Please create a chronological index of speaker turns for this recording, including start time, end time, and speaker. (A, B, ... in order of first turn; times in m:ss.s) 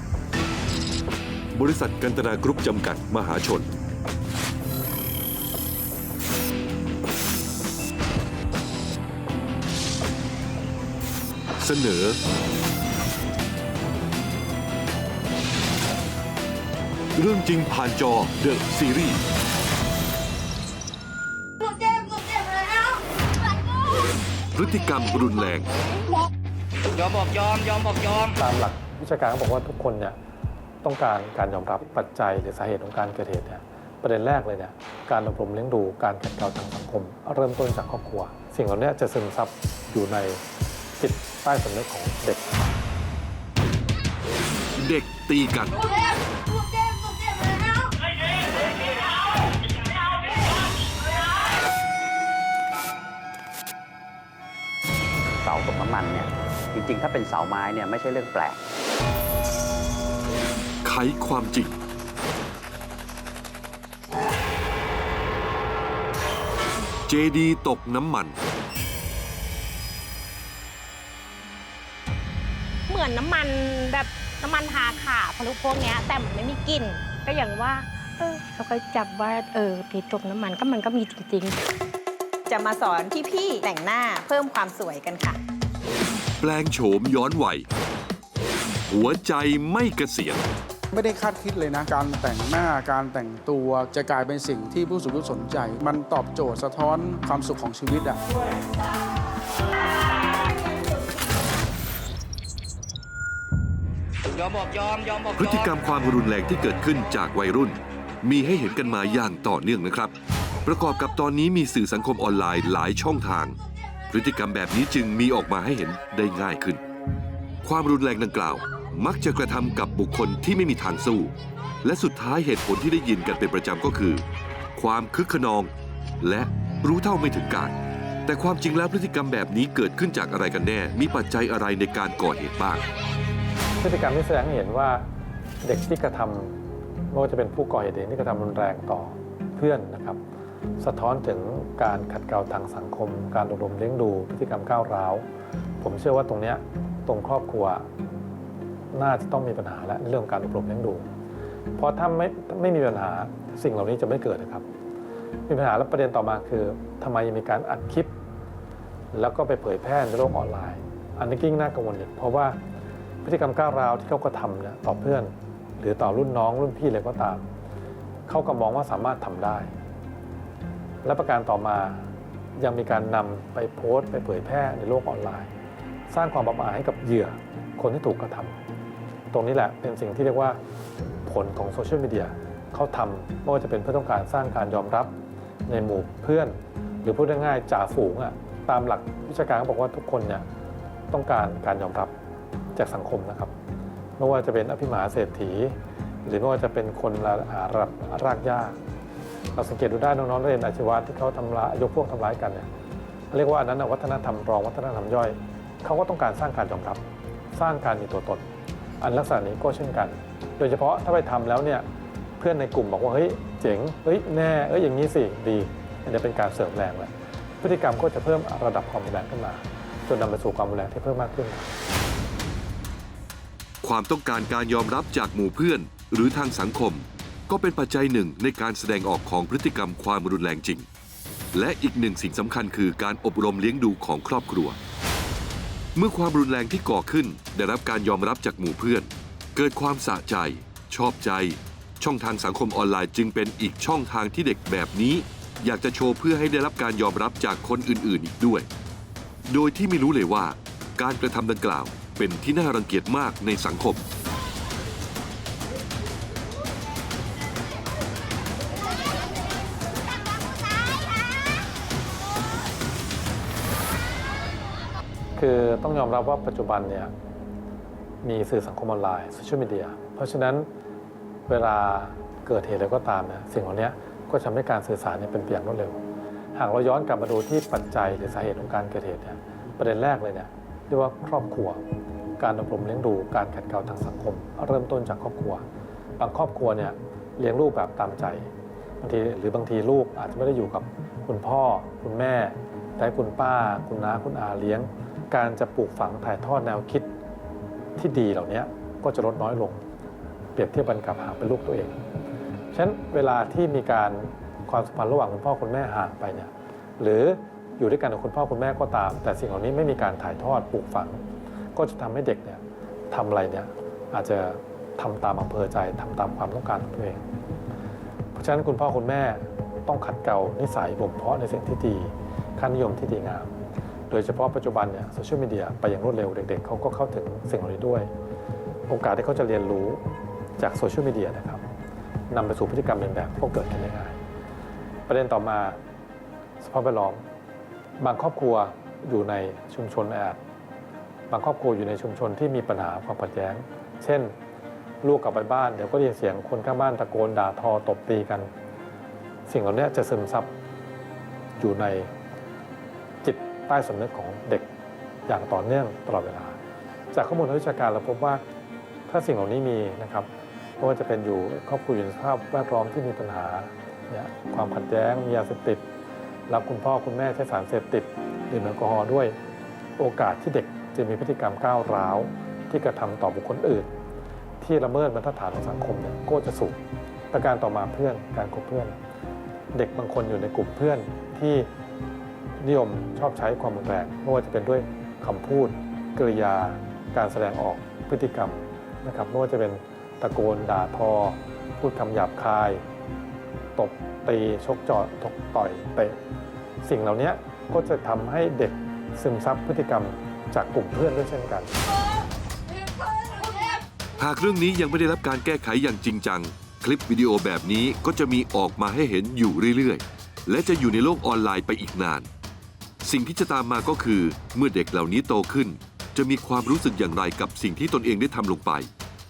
0:01.5-0:03.7 A
0:11.6-0:12.2 A
0:17.1-0:19.2 A
0:24.5-0:25.7 A
0:26.9-0:28.3 B
0:28.4-0:30.2 C
0:30.8-0:40.4 C
0:41.0-0:42.7 C
0:44.8-0:45.8 A
0:55.4-0:58.6 D
1:00.8-1:01.8 A
1:07.1-1:08.4 A
1:12.9-1:21.6 E
1:22.5-1:25.4 F
1:26.4-1:27.7 A
1:28.9-1:30.5 A
1:30.9-1:38.2 G
1:44.4-1:45.5 B
1:45.4-1:53.6 A
1:54.1-1:56.8 A
1:57.6-2:04.2 A
2:04.7-2:07.7 A
2:08.2-2:12.8 A
2:13.8-2:15.0 C
2:15.6-2:16.6 C
2:17.1-2:20.2 C
2:20.8-2:25.2 C
2:25.8-2:27.9 C
2:28.9-2:31.0 C
2:31.8-2:34.6 C
2:35.5-2:38.1 C
2:39.1-2:42.6 C
2:43.2-2:47.4 C
2:48.3-2:49.7 C
2:51.0-2:55.5 C
2:56.1-2:58.6 C
2:59.3-3:00.6 C
3:01.2-3:05.1 C
3:05.7-3:10.4 C
3:11.1-3:12.1 C
3:12.7-3:13.5 C
3:14.2-3:18.8 C
3:19.5-3:22.7 C
3:23.3-3:27.0 C
3:27.5-3:28.4 C
3:29.0-3:31.8 C
3:32.4-3:41.7 C
3:43.8-3:50.9 A
3:51.5-3:54.8 A
3:55.9-4:08.7 A
4:09.5-4:14.0 A
4:25.4-4:27.1 C
4:28.2-4:30.7 C
4:31.5-4:36.0 C
4:36.5-4:41.8 C
4:42.4-4:45.6 C
4:46.2-4:57.1 C
4:58.0-4:59.8 C
5:00.5-5:02.0 C
5:02.7-5:11.2 C
5:11.7-5:17.2 C
5:18.3-5:23.5 C
5:24.1-5:28.1 C
5:28.9-5:30.0 C
5:30.6-5:31.6 C
5:32.3-5:34.2 C
5:35.1-5:35.8 C
5:36.6-5:37.2 C
5:38.0-5:40.4 C
5:41.3-5:44.3 C
5:45.0-5:48.5 C
5:49.4-5:50.5 C
5:51.6-5:52.1 C
5:53.2-5:54.7 C
5:55.3-5:56.6 C
5:57.1-5:58.4 C
5:59.1-6:00.3 C
6:00.8-6:05.8 C
6:06.5-6:09.4 C
6:10.0-6:13.9 C
6:14.6-6:16.8 C
6:17.3-6:18.9 C
6:19.7-6:21.7 C
6:22.6-6:32.8 C
6:33.8-6:36.2 C
6:36.8-6:41.7 C
6:44.2-6:52.3 A
6:53.0-6:58.9 A